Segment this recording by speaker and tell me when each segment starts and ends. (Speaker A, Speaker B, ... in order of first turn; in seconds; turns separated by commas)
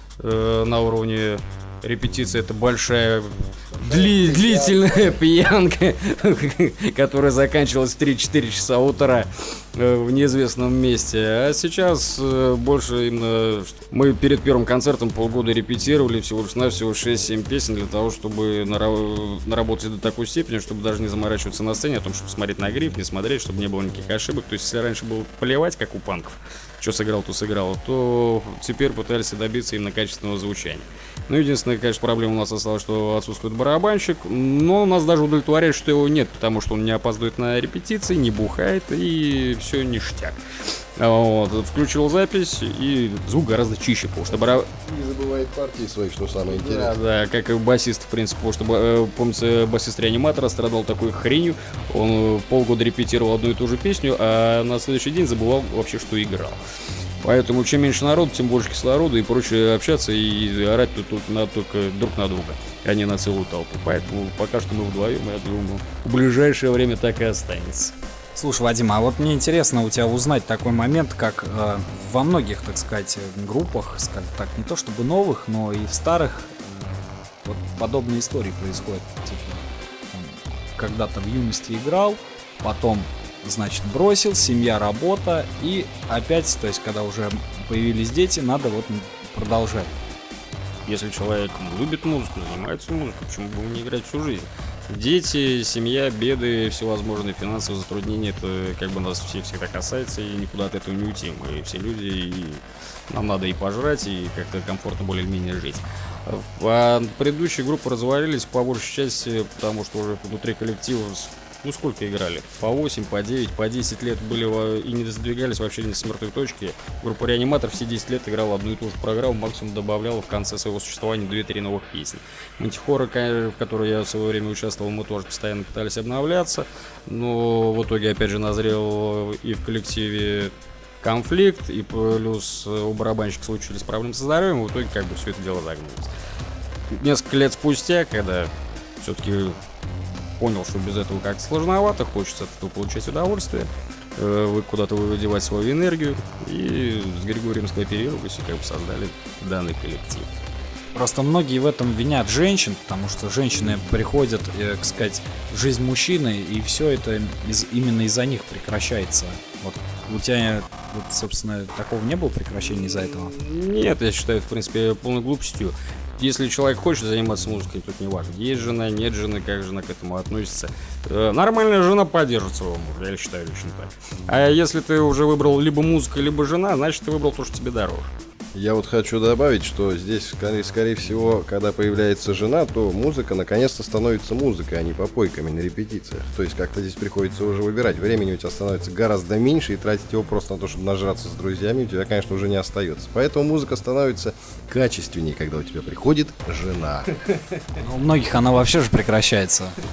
Speaker A: 0.2-40.4, Speaker B: 4.3-4.8, Speaker A: 41.0-44.7, Speaker B: 44.3-47.0, Speaker A: 46.4-56.6, Speaker A: 57.2-67.9, Speaker C: 68.3-89.9, Speaker A: 90.8-136.1, Speaker A: 136.9-139.6, Speaker A: 140.4-150.3, Speaker C: 150.9-163.3, Speaker A: 163.1-178.1, Speaker B: 178.5-197.2, Speaker C: 197.8-199.8